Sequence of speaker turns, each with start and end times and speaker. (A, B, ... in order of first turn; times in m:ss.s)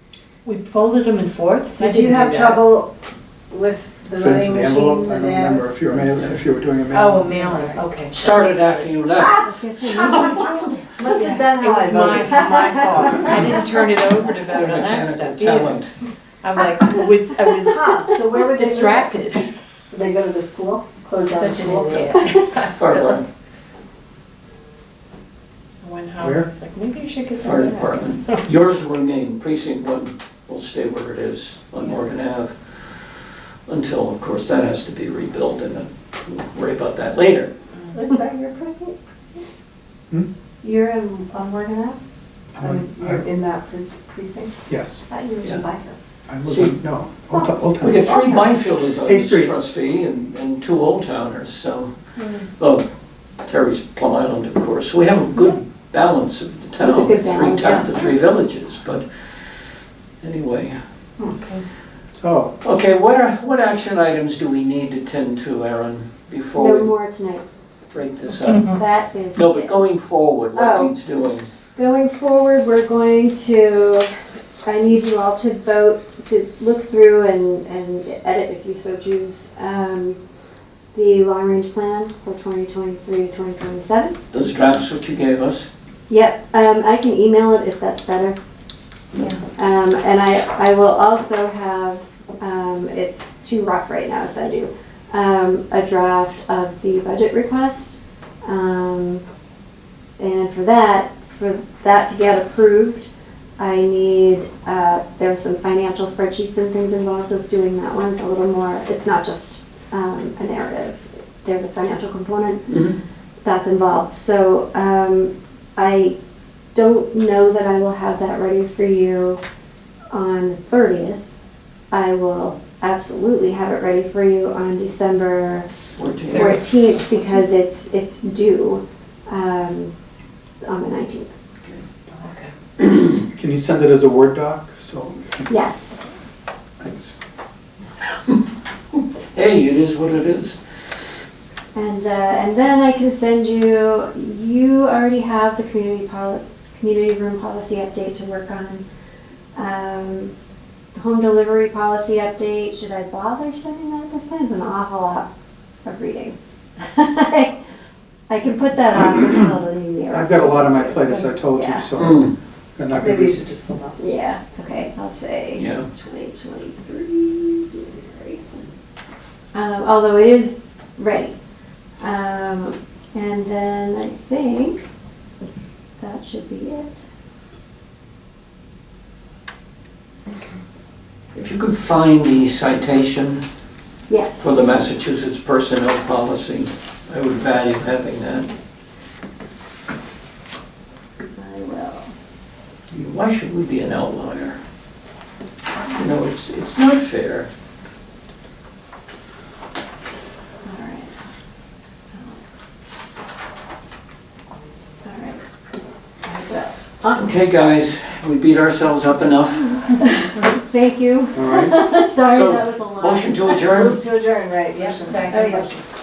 0:00.4-0:02.6 A
0:01.8-0:02.9 B
0:03.5-0:06.2 B
0:04.2-0:07.6 C
0:06.9-0:08.2 A
0:08.1-0:10.6 D
0:09.3-0:11.4 E
0:11.0-0:12.8 B
0:11.1-0:15.8 A
0:12.4-0:13.7 E
0:14.4-0:15.9 D
0:16.4-0:19.4 A
0:17.6-0:19.2 B
0:19.9-0:22.2 B
0:21.3-0:23.1 A
0:22.1-0:23.2 D
0:25.8-0:28.4 A
0:26.2-0:26.5 C
0:27.4-0:33.0 D
0:33.7-0:37.5 D
0:37.9-0:39.4 B
0:40.6-0:42.0 E
0:42.6-0:43.2 C
0:42.6-0:44.5 B
0:44.7-0:45.0 C
0:45.1-0:45.6 E
0:45.4-0:46.0 B
0:46.3-0:49.6 C
0:46.5-0:46.7 D
0:47.3-0:48.5 E
0:47.8-0:51.9 D
0:52.6-0:52.8 D
0:53.4-0:59.0 D
0:56.8-0:58.1 E
1:00.2-1:00.8 D
1:01.3-1:01.6 A
1:02.2-1:02.6 C
1:02.6-1:06.9 D
1:06.6-1:07.4 E
1:07.9-1:08.8 D
1:08.4-1:08.8 A
1:08.7-1:09.9 E
1:09.4-1:11.5 D
1:10.5-1:10.9 E
1:11.8-1:14.1 E
1:14.6-1:20.2 E
1:20.9-1:24.2 E
1:24.3-1:25.7 D
1:26.1-1:28.4 E
1:29.2-1:39.2 E
1:40.2-1:52.7 E
1:52.7-1:53.0 D
1:53.4-1:56.2 E
1:56.7-1:59.4 E
2:00.1-2:01.2 E
2:01.9-2:05.7 E
2:06.0-2:06.6 D
2:06.3-2:07.4 A
2:06.3-2:09.9 E
2:10.6-2:11.3 E
2:12.1-2:12.5 A
2:12.8-2:13.1 D
2:13.3-2:15.5 C
2:15.5-2:16.0 E
2:16.8-2:17.1 C
2:19.0-2:20.6 D
2:21.7-2:28.8 E
2:29.6-2:30.3 E
2:30.9-2:35.3 E
2:35.8-2:37.6 E
2:38.3-2:41.9 E
2:40.1-2:43.4 C
2:42.0-2:42.3 D
2:42.9-2:44.0 B
2:44.0-2:48.4 E
2:45.6-2:45.9 D
2:49.5-2:51.4 E
2:52.0-2:54.8 E
2:56.0-2:57.0 E
3:01.3-3:03.4 D
3:04.1-3:04.5 E
3:04.4-3:08.5 D
3:11.4-3:12.1 E
3:12.9-3:14.6 D
3:15.9-3:17.5 D
3:20.6-3:21.2 E
3:22.1-3:22.8 E
3:25.0-3:25.4 E
3:26.2-3:27.3 E
3:27.1-3:29.8 D
3:30.0-3:33.6 E
3:31.3-3:31.8 C
3:32.2-3:34.0 D
3:33.6-3:35.7 B
3:34.8-3:35.8 A
3:35.3-3:35.7 E